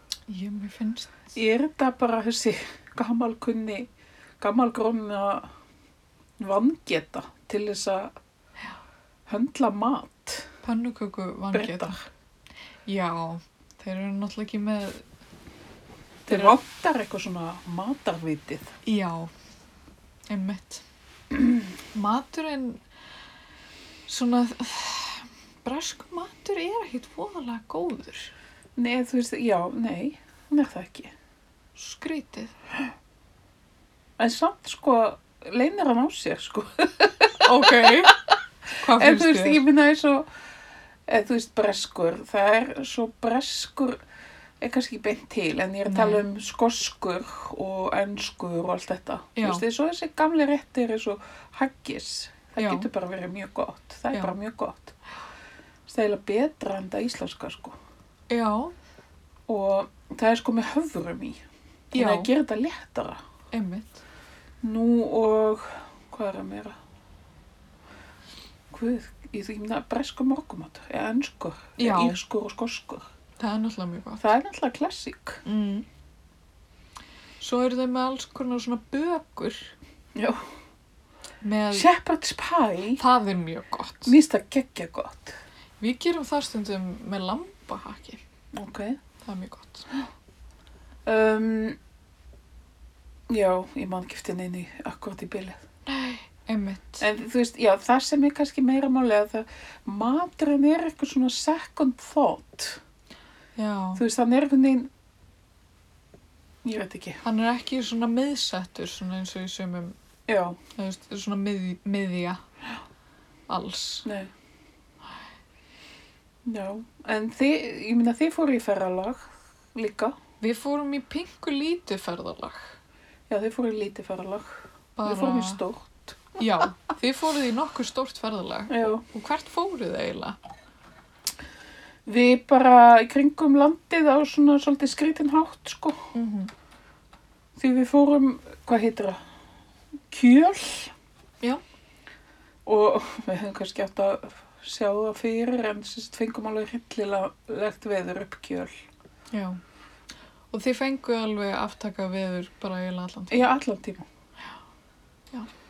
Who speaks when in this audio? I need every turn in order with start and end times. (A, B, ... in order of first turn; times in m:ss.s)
0:00.3-0:01.3 A
0:01.4-0:03.9 B
0:04.4-0:05.5 B
0:06.4-0:08.2 B
0:09.3-0:10.5 B
0:10.6-0:12.0 A
0:11.5-0:12.1 B
0:12.9-0:15.0 A
0:16.3-0:18.7 B
0:16.3-0:16.6 A
0:18.8-0:19.3 A
0:20.3-0:20.8 A
0:21.9-0:22.8 A
0:24.1-0:28.3 A
0:28.8-0:31.1 B
0:31.8-0:32.5 A
0:34.2-0:38.1 B
0:37.4-0:38.2 A
0:38.8-0:39.6 A
0:39.0-0:40.3 B
0:41.1-0:44.0 B
0:44.6-0:55.0 B
0:45.9-0:46.2 A
0:49.4-0:49.6 A
0:52.6-0:52.9 A
0:55.9-0:57.8 B
0:58.3-0:58.7 A
0:59.5-1:03.2 B
1:01.9-1:02.3 A
1:03.5-1:04.0 A
1:04.6-1:06.8 B
1:08.7-1:13.1 B
1:11.8-1:12.2 A
1:13.4-1:14.3 A
1:14.2-1:15.4 B
1:15.4-1:15.9 A
1:17.4-1:19.7 A
1:20.2-1:20.4 B
1:21.4-1:21.9 A
1:21.7-1:23.0 B
1:23.0-1:24.1 A
1:24.1-1:25.4 B
1:25.8-1:28.2 A
1:28.5-1:29.0 B
1:29.2-1:29.9 A
1:31.0-1:31.8 B
1:33.3-1:35.6 B
1:35.9-1:37.0 A
1:37.0-1:42.8 B
1:43.6-1:44.0 A
1:44.0-1:44.9 B
1:46.6-1:47.2 B
1:47.2-1:50.0 A
1:50.3-1:50.6 B
1:50.8-1:52.4 A
1:53.5-1:54.1 A
1:54.0-1:54.3 B
1:56.4-2:00.2 B
2:00.4-2:02.8 A
2:03.3-2:06.4 B
2:05.0-2:05.6 A
2:06.4-2:10.4 A
2:08.7-2:09.0 B
2:12.1-2:16.1 B
2:16.1-2:16.5 A
2:17.6-2:19.2 B
2:20.1-2:20.9 B
2:22.7-2:28.8 B
2:29.3-2:29.6 A
2:30.5-2:33.5 A
2:33.3-2:34.1 B